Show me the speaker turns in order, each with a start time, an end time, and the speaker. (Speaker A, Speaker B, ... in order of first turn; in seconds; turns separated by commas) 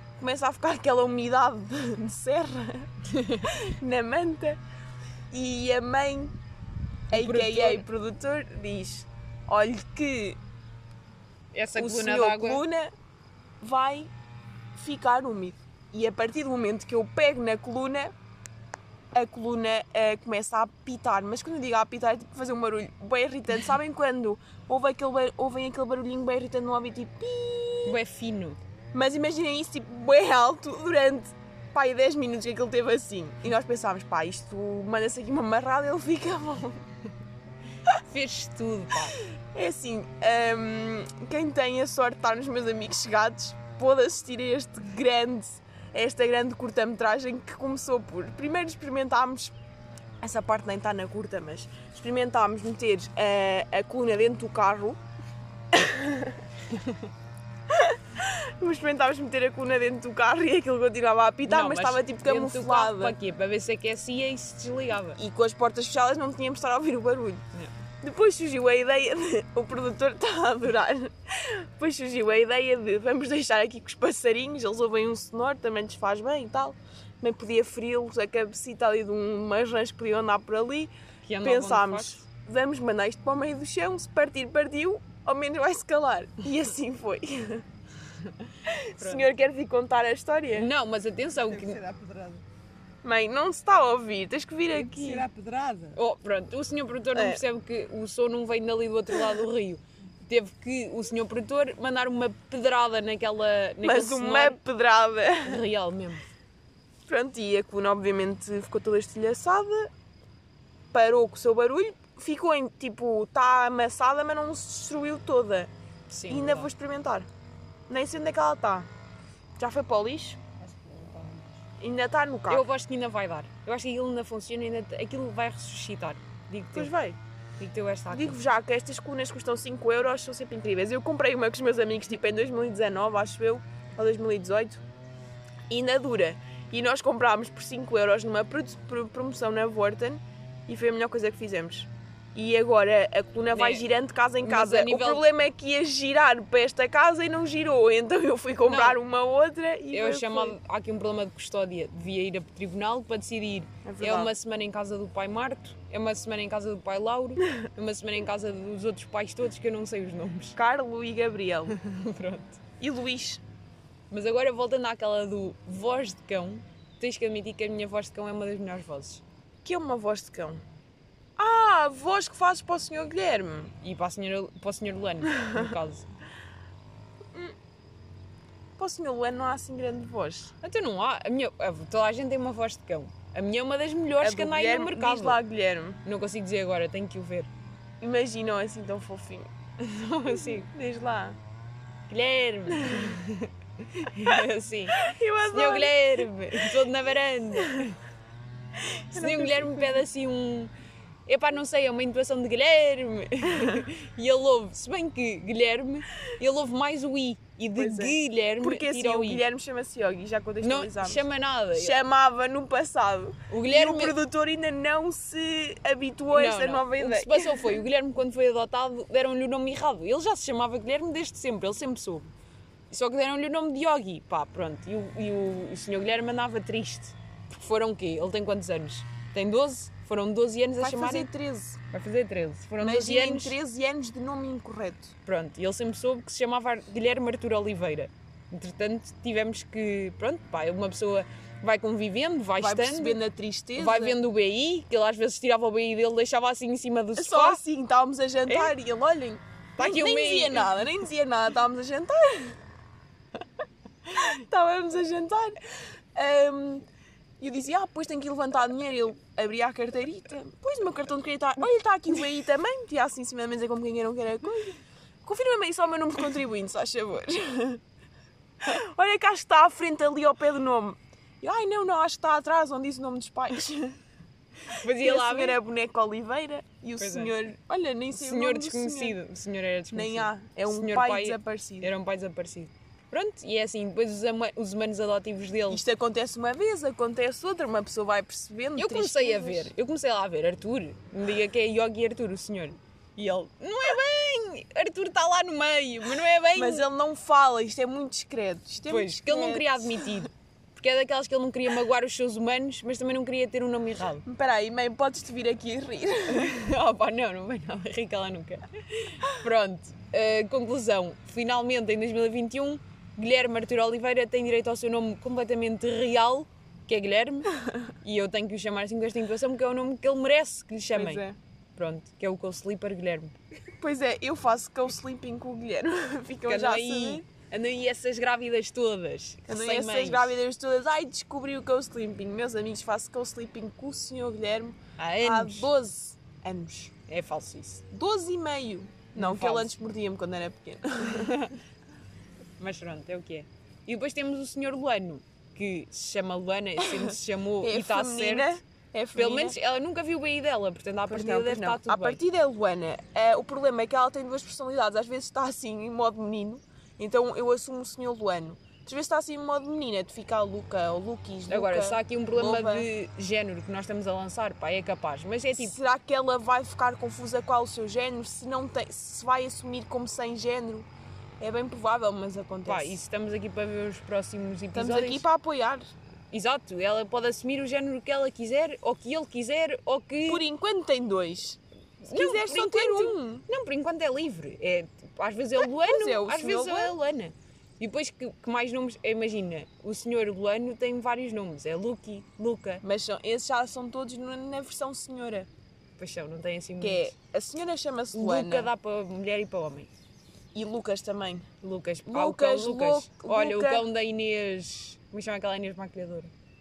Speaker A: 0.2-2.9, Speaker B: 3.1-3.5, Speaker A: 3.4-4.6, Speaker A: 5.3-6.4, Speaker A: 7.1-10.4, Speaker B: 7.1-7.9, Speaker B: 11.5-12.6, Speaker A: 11.8-12.9, Speaker A: 13.6-14.1, Speaker A: 14.8-18.1, Speaker A: 19.1-28.0, Speaker B: 27.9-28.6, Speaker A: 28.9-36.8, Speaker B: 38.0-39.2, Speaker A: 39.5-49.5, Speaker A: 50.2-55.0, Speaker A: 55.7-56.4, Speaker A: 57.7-63.2, Speaker B: 61.5-65.2, Speaker A: 65.2-67.4, Speaker A: 68.0-87.6, Speaker B: 81.2-82.2, Speaker B: 88.2-88.5, Speaker A: 88.7-90.7, Speaker B: 89.0-89.3, Speaker B: 90.5-91.8, Speaker C: 91.3-92.4, Speaker A: 93.0-95.3, Speaker C: 94.7-96.0, Speaker B: 96.0-104.6, Speaker A: 97.1-97.4, Speaker A: 103.8-105.6, Speaker B: 105.4-106.3, Speaker A: 107.1-109.9, Speaker A: 110.9-115.7, Speaker B: 116.1-116.7, Speaker A: 116.3-117.3, Speaker A: 117.9-118.9, Speaker A: 119.6-120.4, Speaker C: 120.6-121.6, Speaker A: 121.8-122.7, Speaker B: 122.5-126.9, Speaker A: 126.7-127.2, Speaker B: 127.6-128.4, Speaker A: 128.1-134.8, Speaker A: 135.7-150.6, Speaker B: 143.5-143.8, Speaker B: 144.4-145.2, Speaker B: 148.6-149.0, Speaker B: 149.9-160.6, Speaker A: 153.8-154.3, Speaker A: 160.6-161.8, Speaker B: 161.7-162.6, Speaker A: 162.8-163.4, Speaker B: 164.1-169.2, Speaker A: 169.6-170.6, Speaker A: 171.4-173.7, Speaker B: 173.8-176.1, Speaker A: 175.3-175.6, Speaker A: 178.8-180.6, Speaker B: 180.6-185.4, Speaker A: 184.2-186.0, Speaker B: 186.0-187.5, Speaker A: 188.0-189.5, Speaker B: 189.8-190.7, Speaker A: 190.3-191.4, Speaker B: 192.1-198.0, Speaker A: 192.8-193.2, Speaker A: 194.1-194.3, Speaker A: 194.9-196.8, Speaker A: 199.0-200.0, Speaker B: 199.1-200.7, Speaker B: 201.3-209.4, Speaker A: 207.8-217.8, Speaker B: 210.6-212.0, Speaker B: 213.5-214.2, Speaker B: 216.3-222.3, Speaker B: 222.9-231.3, Speaker A: 230.8-231.8, Speaker B: 231.9-233.6, Speaker A: 232.8-235.2, Speaker B: 235.2-243.2, Speaker A: 242.6-244.2, Speaker B: 243.8-247.6, Speaker A: 247.2-252.6, Speaker B: 248.5-248.8, Speaker B: 249.8-250.9, Speaker A: 254.1-255.6, Speaker A: 256.2-256.9, Speaker A: 257.4-267.8, Speaker A: 268.6-274.0, Speaker B: 274.7-275.6, Speaker A: 274.7-279.2, Speaker B: 277.0-277.5, Speaker B: 278.1-285.8, Speaker A: 279.9-281.9, Speaker A: 285.7-289.7, Speaker B: 288.8-296.9, Speaker A: 296.6-300.1, Speaker B: 298.9-304.2, Speaker A: 304.2-306.6, Speaker B: 306.3-317.5, Speaker B: 318.0-321.2, Speaker A: 320.9-321.4, Speaker B: 321.8-323.4, Speaker A: 323.8-327.2, Speaker B: 326.5-330.4, Speaker A: 329.5-336.9, Speaker B: 335.0-335.7, Speaker B: 337.1-337.8, Speaker A: 337.9-341.4, Speaker B: 339.2-339.8, Speaker B: 341.0-341.6, Speaker B: 342.6-348.5, Speaker A: 347.6-349.6, Speaker B: 349.1-352.2, Speaker A: 351.1-362.9, Speaker B: 361.5-365.8, Speaker A: 365.6-370.9, Speaker A: 371.4-373.0, Speaker B: 372.7-375.2, Speaker A: 374.7-375.9, Speaker B: 376.3-380.4, Speaker A: 380.3-383.5, Speaker B: 382.0-392.8, Speaker A: 385.6-387.0, Speaker A: 392.8-395.5, Speaker B: 396.0-397.1, Speaker A: 396.8-398.7, Speaker B: 398.1-399.9, Speaker A: 400.5-401.5, Speaker B: 401.6-406.3, Speaker A: 402.1-403.9